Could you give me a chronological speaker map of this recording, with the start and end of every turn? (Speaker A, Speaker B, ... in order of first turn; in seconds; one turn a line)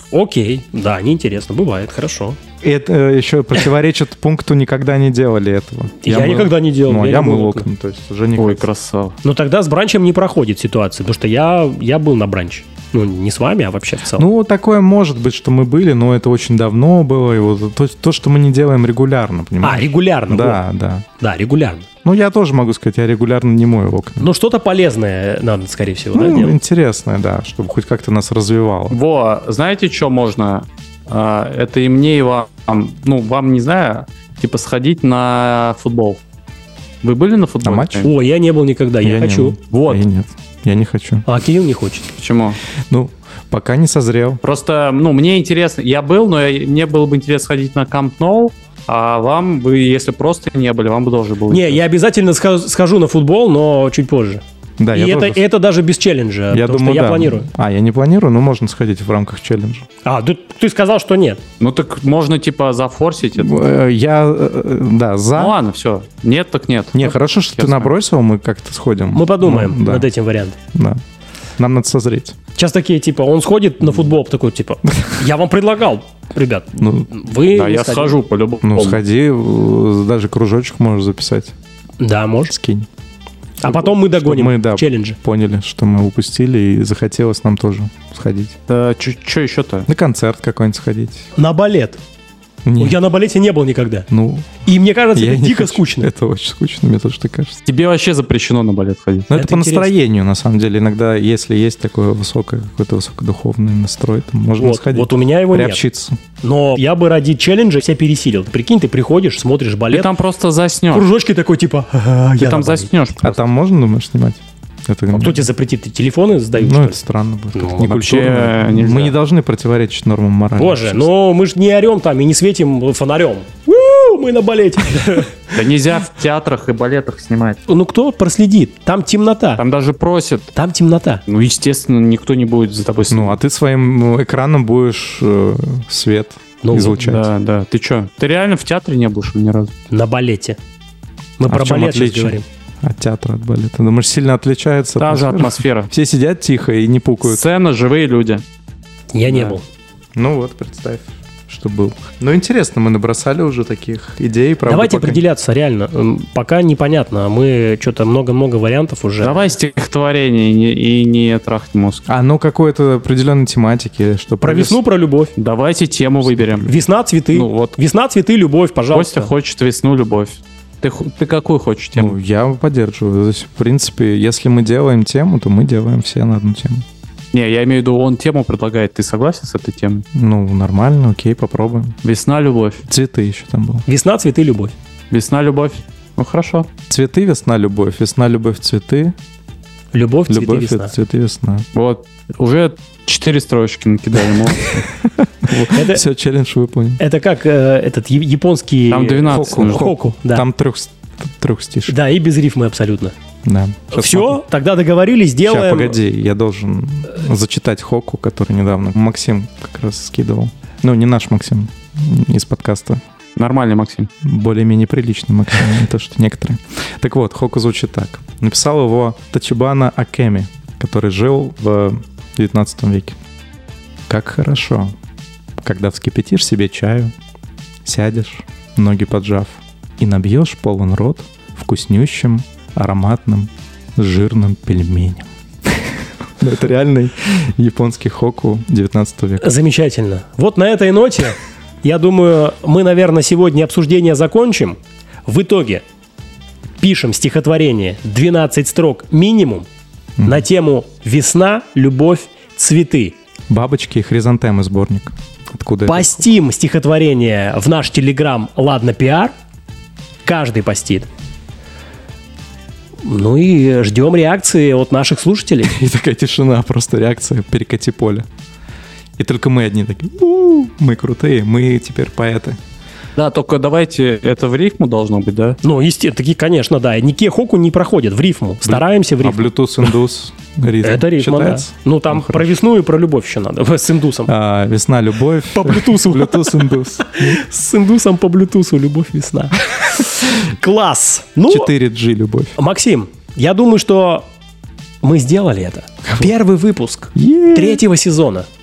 Speaker A: 0.1-2.4
Speaker B: 2.6-8.7
Speaker A: 6.0-7.7
Speaker C: 8.4-9.2
Speaker A: 9.2-14.3
Speaker B: 14.1-21.1
Speaker A: 19.6-20.6
Speaker A: 21.2-21.9
Speaker B: 22.0-24.3
Speaker A: 24.2-26.6
Speaker B: 26.1-29.0
Speaker C: 28.9-36.2
Speaker C: 37.0-38.1
Speaker B: 37.6-38.1
Speaker A: 38.0-39.6
Speaker B: 39.0-41.3
Speaker C: 39.7-40.0
Speaker A: 41.3-42.1
Speaker C: 42.2-42.6
Speaker B: 42.9-44.4
Speaker C: 44.4-51.8
Speaker A: 51.5-54.4
Speaker B: 54.8-55.4
Speaker A: 54.9-57.5
Speaker B: 56.5-59.9
Speaker A: 60.0-61.4
Speaker C: 61.6-63.6
Speaker B: 63.4-65.6
Speaker C: 65.3-68.0
Speaker B: 66.9-70.1
Speaker A: 69.1-70.6
Speaker B: 70.7-71.0
Speaker B: 71.6-72.4
Speaker A: 72.5-78.2
Speaker B: 76.8-77.1
Speaker C: 77.5-79.0
Speaker B: 78.6-81.5
Speaker A: 82.0-82.5
Speaker B: 82.5-82.9
Speaker A: 83.6-85.2
Speaker B: 83.6-88.6
Speaker C: 88.7-89.9
Speaker B: 89.9-91.3
Speaker A: 91.4-92.0
Speaker B: 92.7-93.0
Speaker A: 92.8-94.1
Speaker B: 94.1-97.6
Speaker A: 94.7-96.1
Speaker C: 97.7-99.3
Speaker B: 99.3-106.2
Speaker A: 99.3-99.9
Speaker A: 104.6-105.8
Speaker A: 106.4-110.1
Speaker C: 109.9-111.1
Speaker A: 110.9-112.9
Speaker C: 112.4-113.4
Speaker B: 113.2-115.5
Speaker A: 115.1-117.0
Speaker B: 116.6-121.1
Speaker A: 117.5-118.0
Speaker C: 117.8-119.2
Speaker A: 120.6-125.6
Speaker C: 125.5-127.6
Speaker A: 127.7-129.6
Speaker C: 129.6-130.5
Speaker A: 130.5-131.2
Speaker C: 131.3-133.3
Speaker B: 133.1-137.3
Speaker A: 136.6-137.0
Speaker C: 136.9-139.7
Speaker A: 139.9-140.6
Speaker A: 141.4-142.4
Speaker B: 141.5-147.4
Speaker C: 145.0-145.9
Speaker C: 147.2-148.4
Speaker A: 149.1-149.6
Speaker B: 150.2-155.2
Speaker A: 154.7-159.5
Speaker C: 159.2-162.1
Speaker B: 162.1-164.8
Speaker A: 164.4-165.3
Speaker C: 165.4-166.7
Speaker B: 166.3-166.7
Speaker A: 166.7-169.3
Speaker C: 167.3-167.8
Speaker C: 168.9-172.2
Speaker B: 171.9-176.8
Speaker C: 177.3-180.0
Speaker B: 180.1-182.0
Speaker C: 182.0-182.8
Speaker B: 182.9-183.8
Speaker A: 183.9-184.7
Speaker C: 185.1-186.7
Speaker B: 186.9-189.2
Speaker A: 189.9-190.9
Speaker B: 190.3-191.7
Speaker C: 191.7-194.9
Speaker B: 194.7-197.0
Speaker A: 195.6-196.0
Speaker A: 197.0-200.5
Speaker C: 198.9-200.0
Speaker B: 199.3-202.0
Speaker A: 201.9-203.1
Speaker B: 203.4-204.4
Speaker A: 203.9-206.0
Speaker B: 205.4-213.0
Speaker C: 213.4-214.1
Speaker B: 214.2-223.2
Speaker B: 224.1-224.9
Speaker B: 225.6-227.1
Speaker B: 227.8-239.5
Speaker A: 239.4-245.8
Speaker A: 246.8-249.7
Speaker B: 250.2-250.4
Speaker A: 250.2-253.2
Speaker B: 253.5-256.2
Speaker A: 255.9-259.3
Speaker A: 260.2-261.1
Speaker A: 263.0-265.7
Speaker B: 265.6-268.3
Speaker B: 269.2-272.6
Speaker C: 273.2-275.6
Speaker A: 275.6-279.9
Speaker B: 278.6-282.5
Speaker A: 280.8-284.3
Speaker B: 284.3-287.4
Speaker A: 285.5-291.7
Speaker B: 291.5-292.6
Speaker A: 292.6-294.2
Speaker A: 295.0-298.5
Speaker B: 297.1-297.8